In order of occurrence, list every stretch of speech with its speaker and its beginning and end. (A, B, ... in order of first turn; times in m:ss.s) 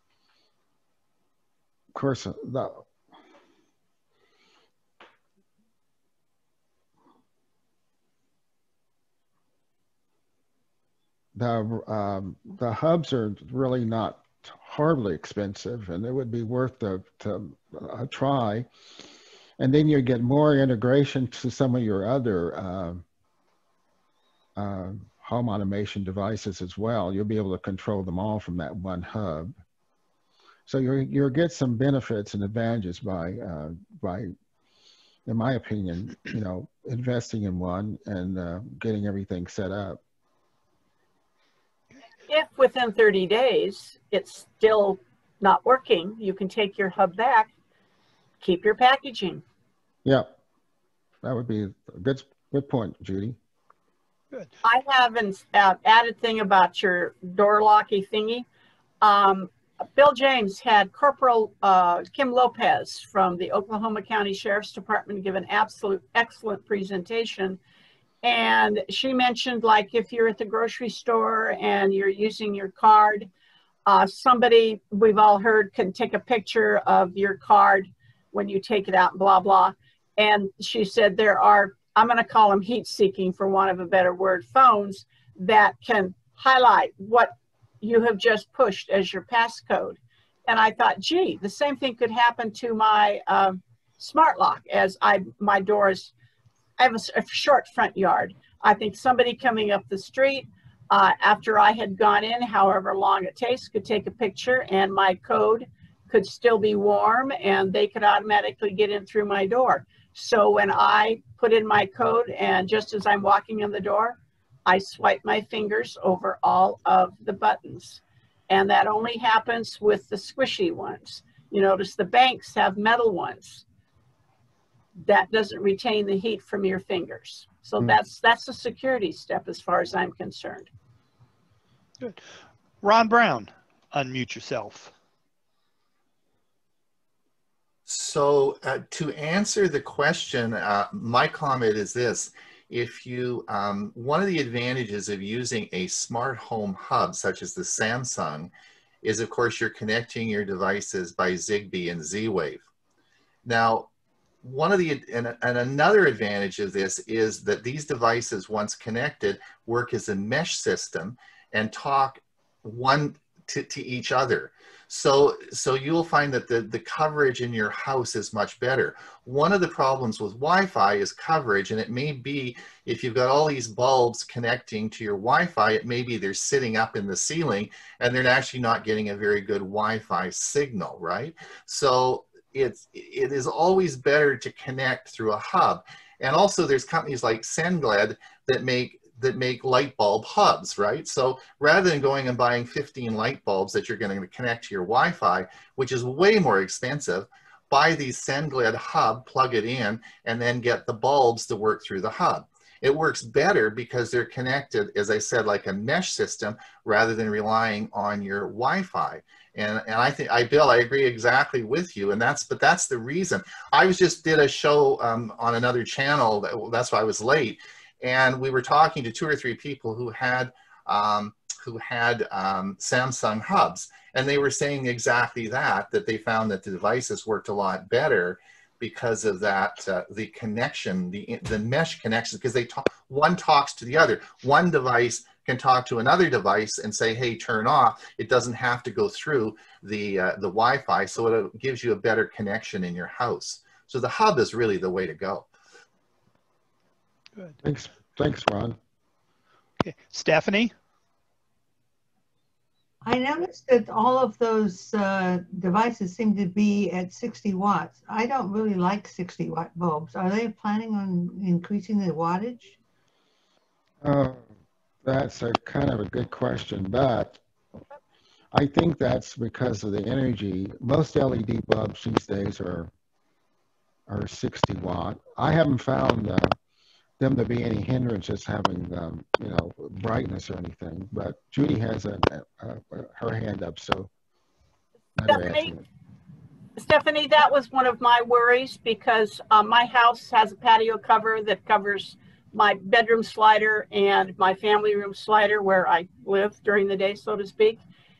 0:01.9-0:02.8 A
0:11.3-0:18.7 A
0:19.6-0:23.0 A
0:24.6-0:29.5 A
0:30.7-0:34.3 A
0:35.2-0:40.0 A
0:42.3-0:47.5 B
0:48.4-0:49.4 B
0:50.0-0:50.3 A
0:51.2-0:53.4 A
0:54.6-0:58.4 B
0:59.0-1:07.6 B
1:08.2-1:13.3 B
1:13.8-1:36.1 B
1:36.8-2:03.6 B
2:05.0-2:10.7 B
2:12.0-2:12.2 C
2:12.8-2:14.9 C
2:17.8-2:32.6 D
2:33.4-2:33.9 D
2:34.4-4:05.5 D
4:07.6-4:08.8 A
4:09.8-4:10.7 C
4:13.0-4:22.8 E
4:24.0-4:24.5 A
4:25.0-4:27.4 A
4:28.5-4:32.9 A
4:34.1-4:36.5 A
4:37.2-4:44.1 A
4:45.2-4:45.8 A
4:45.3-4:45.7 B
4:46.8-4:57.8 B